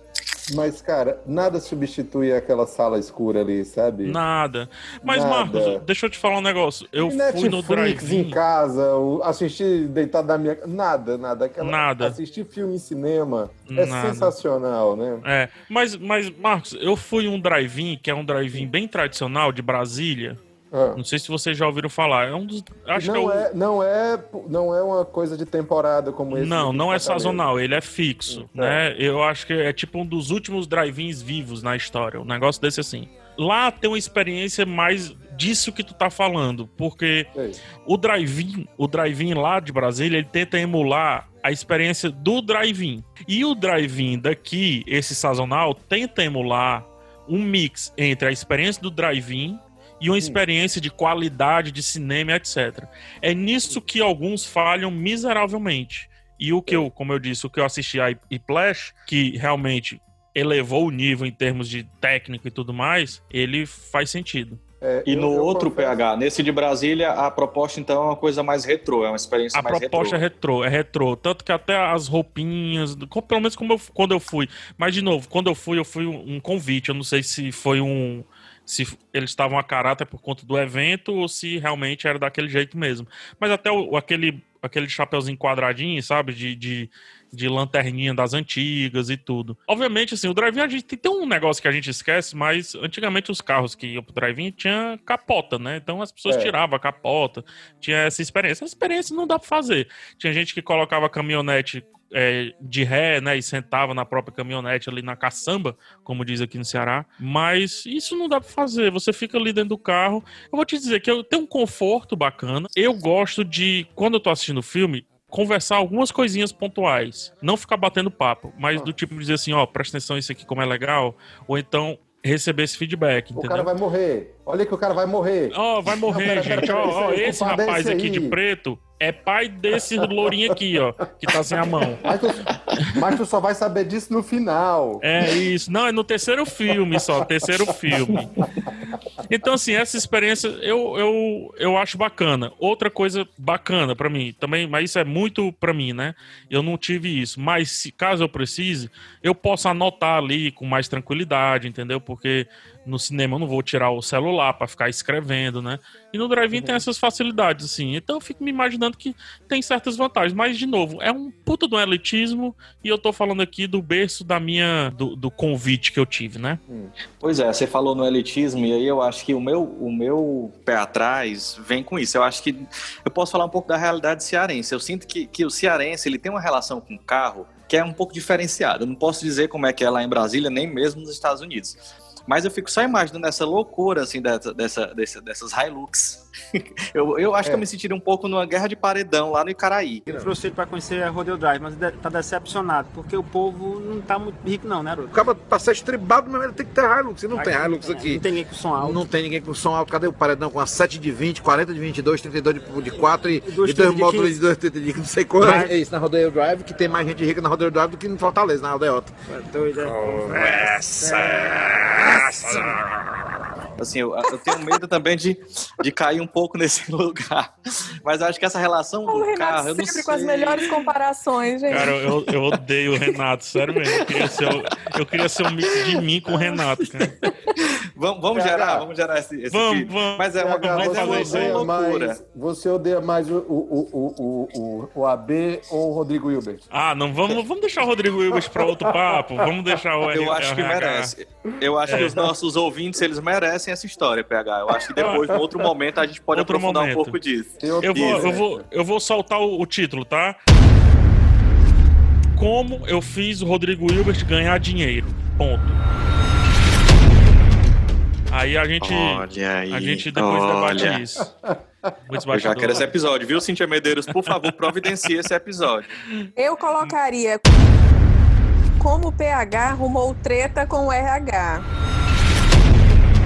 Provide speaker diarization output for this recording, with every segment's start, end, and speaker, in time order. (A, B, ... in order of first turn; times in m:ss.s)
0:00.5-0:04.2 A
0:04.0-0:08.4 B
0:05.0-0:05.8 A
0:07.0-0:15.2 A
0:11.6-0:12.2 B
0:13.7-0:14.4 B
0:15.2-0:20.4 B
0:20.7-0:21.0 A
0:20.9-0:23.5 B
0:22.9-0:27.4 A
0:26.3-0:37.3 B
0:28.3-0:28.8 A
0:37.3-0:37.6 A
0:37.8-1:04.6 B
1:04.8-1:06.0 A
1:05.1-1:10.2 C
1:09.5-2:03.7 B
1:36.3-1:36.5 A
2:03.4-2:08.4 A
2:05.5-2:12.1 B
2:10.0-2:10.5 A
2:11.4-2:15.3 A
2:15.0-2:18.3 B
2:17.0-2:18.5 A
2:19.3-2:46.6 B
2:36.5-2:36.8 A
2:46.7-2:46.9 A
2:47.2-3:10.1 C
3:10.1-3:15.2 D
3:15.1-3:18.2 E
3:17.3-3:19.0 D
3:18.8-3:29.2 E
3:22.9-3:24.4 D
3:25.4-3:25.8 D
3:30.0-3:32.8 E
3:33.8-3:40.8 C
3:39.1-3:41.9 F
3:41.7-3:47.2 B
3:43.6-3:44.6 C
3:45.8-3:46.6 C
3:47.9-3:52.2 C
3:48.3-3:48.8 A
3:49.5-3:51.7 B
3:50.4-3:56.6 A
3:56.7-4:01.1 B
3:58.3-3:59.7 A
4:00.1-4:08.4 C
4:01.7-4:02.2 A
4:01.9-4:02.2 B
4:05.0-4:05.3 B
4:06.3-4:07.2 B
4:07.6-4:08.6 A
4:07.8-4:10.4 B
4:12.3-4:15.8 B
4:18.3-4:21.3 B
4:18.8-4:21.0 C
4:21.2-4:21.9 A
4:22.1-4:22.9 B
4:22.3-4:25.9 C
4:24.3-4:24.8 B
4:26.4-4:27.6 F
4:28.8-4:31.6 F